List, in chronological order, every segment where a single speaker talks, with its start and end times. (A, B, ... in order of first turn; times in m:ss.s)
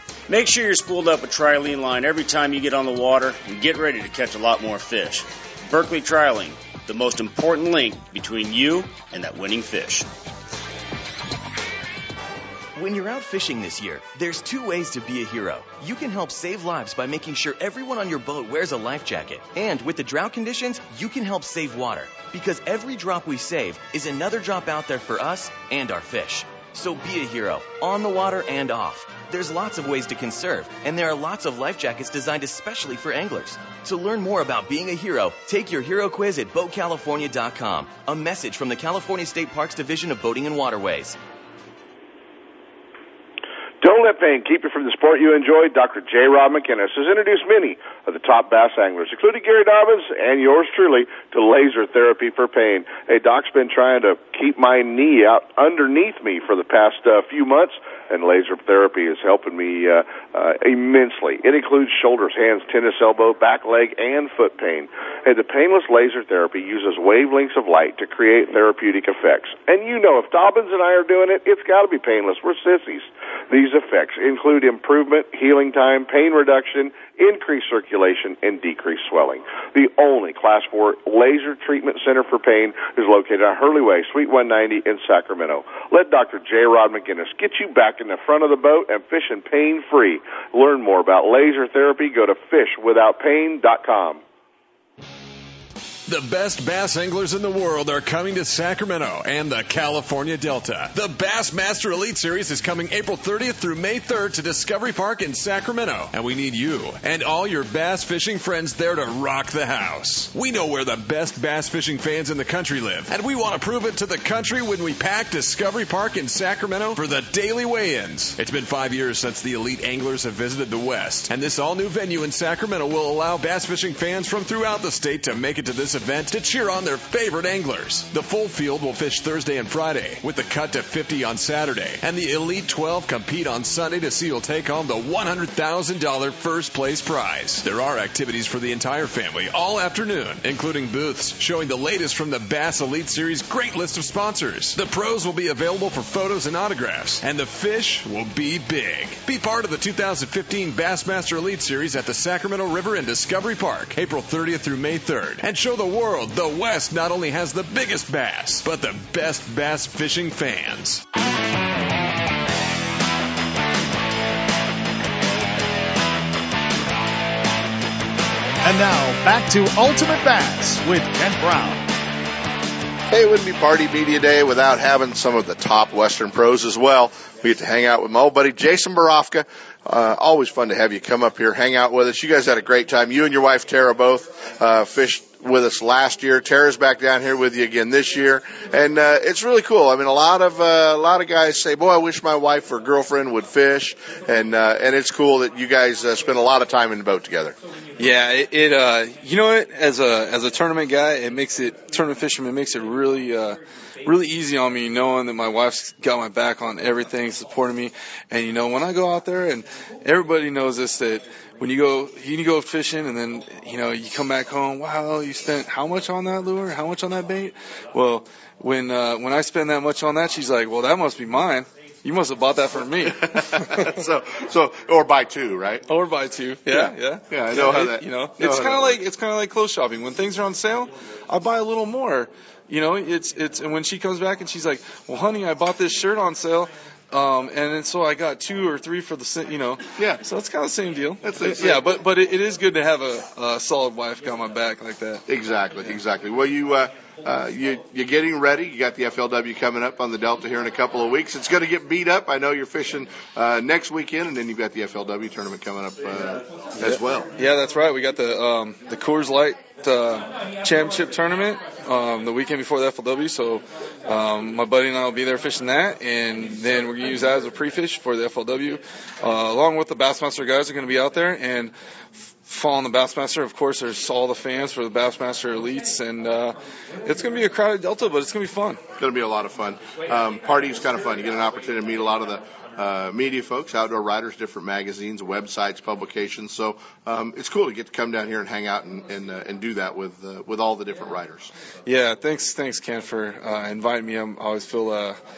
0:00.3-0:10.1 A
0:12.8-0:41.2 B
0:43.8-1:34.2 C
1:36.1-2:41.0 D
2:48.6-2:51.9 E
2:53.1-3:17.6 F
3:18.0-3:44.0 G
3:43.0-3:45.8 F
3:45.9-4:05.2 G
3:46.7-3:49.0 F
4:01.2-4:01.9 F
4:05.3-4:17.3 F
4:16.8-4:31.7 G
4:32.4-4:38.8 G
4:39.0-4:51.5 F
4:51.8-4:55.2 G